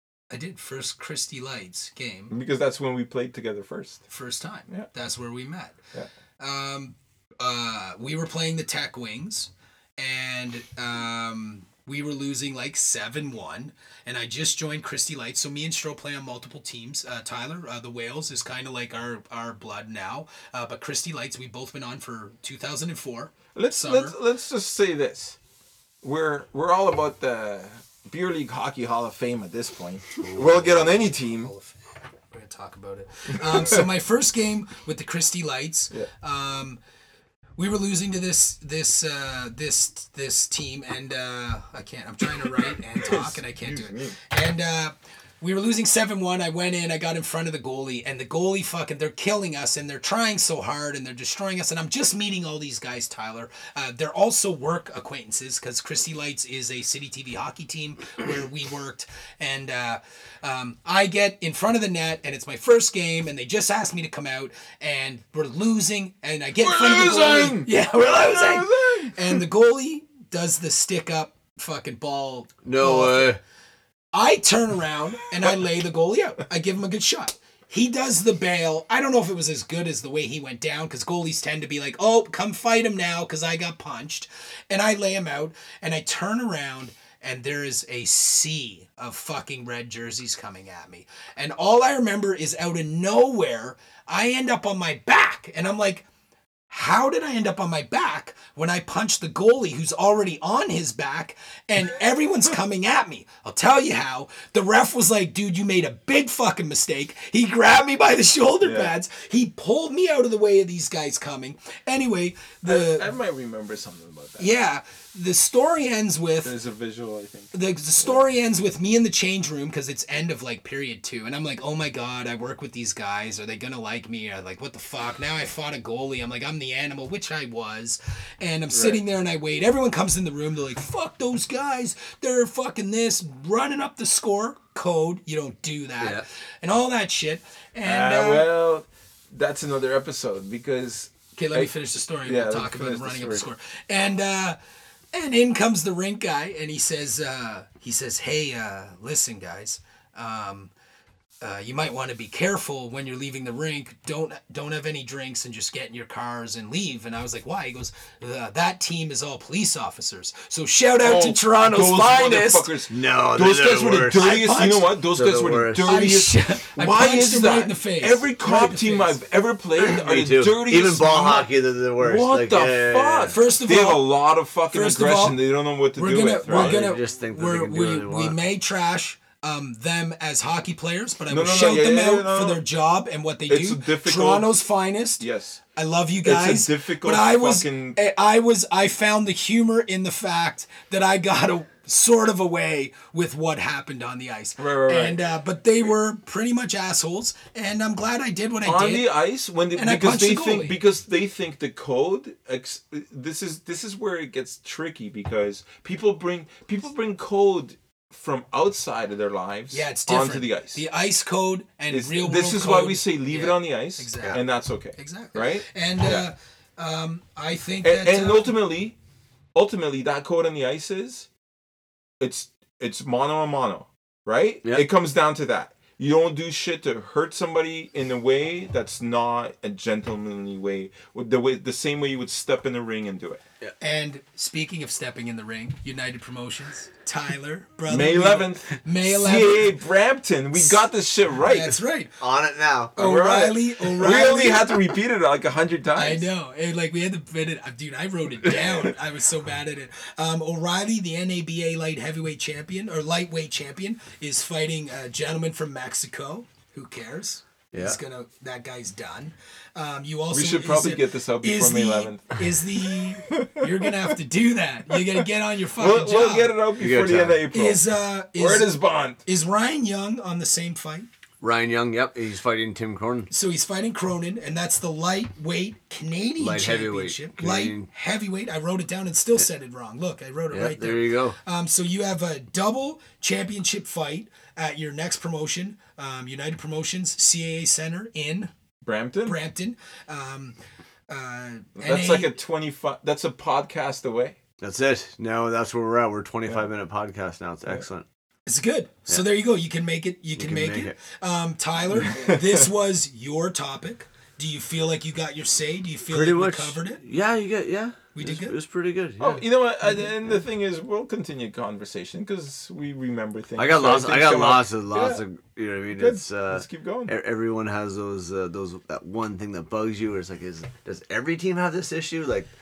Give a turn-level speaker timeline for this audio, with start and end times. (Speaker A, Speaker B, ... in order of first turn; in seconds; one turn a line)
Speaker A: 0.3-2.3
Speaker B: 2.3-4.0
Speaker A: 4.1-5.8
Speaker A: 6.4-24.1
Speaker B: 23.5-25.4
Speaker B: 26.0-31.5
Speaker A: 30.2-36.8
Speaker B: 33.4-33.8
Speaker A: 37.6-73.3
Speaker B: 43.0-44.1
Speaker B: 66.6-69.4
Speaker C: 72.6-73.4
Speaker A: 74.1-96.0
Speaker A: 96.7-113.1
Speaker B: 108.6-108.9
Speaker B: 112.7-114.5
Speaker A: 114.4-116.5
Speaker B: 116.4-118.2
Speaker A: 117.5-138.5
Speaker B: 128.7-129.0
Speaker B: 137.8-141.7
Speaker A: 141.3-144.6
Speaker B: 142.2-143.5
Speaker A: 145.1-150.7
Speaker A: 151.4-162.7
Speaker B: 161.0-176.8
Speaker C: 162.9-164.2
Speaker A: 164.1-164.9
Speaker C: 165.1-166.0
Speaker A: 165.8-169.2
Speaker C: 169.8-173.3
Speaker A: 173.3-174.1
Speaker A: 174.7-175.4
Speaker A: 175.9-199.1
Speaker C: 176.5-178.4
Speaker B: 181.3-182.6
Speaker B: 183.5-184.6
Speaker B: 185.2-185.6
Speaker B: 186.2-188.0
Speaker B: 194.6-195.2
Speaker B: 198.6-210.8
Speaker A: 199.7-200.8
Speaker A: 209.7-214.4
Speaker B: 211.9-216.2
Speaker A: 214.9-218.5
Speaker B: 217.8-218.9
Speaker B: 219.5-221.3
Speaker B: 222.2-233.4
Speaker A: 233.8-239.7
Speaker B: 237.9-241.8
Speaker A: 240.6-242.2
Speaker C: 242.2-242.9
Speaker A: 242.9-244.7
Speaker B: 242.9-246.3
Speaker A: 245.9-266.5
Speaker B: 260.3-264.1
Speaker B: 264.9-265.2
Speaker B: 265.8-267.8
Speaker C: 266.8-267.4
Speaker A: 267.5-271.1
Speaker B: 268.3-269.2
Speaker C: 271.4-273.3
Speaker A: 273.3-288.5
Speaker C: 276.4-277.9
Speaker C: 280.5-281.4
Speaker B: 288.8-289.4
Speaker A: 289.2-290.6
Speaker A: 291.1-292.3
Speaker B: 291.8-294.4
Speaker C: 294.6-298.0
Speaker A: 298.5-307.0
Speaker C: 300.4-300.9
Speaker B: 302.0-302.4
Speaker C: 306.1-309.4
Speaker A: 308.1-308.6
Speaker B: 309.2-315.2
Speaker C: 313.6-322.5
Speaker B: 315.9-317.1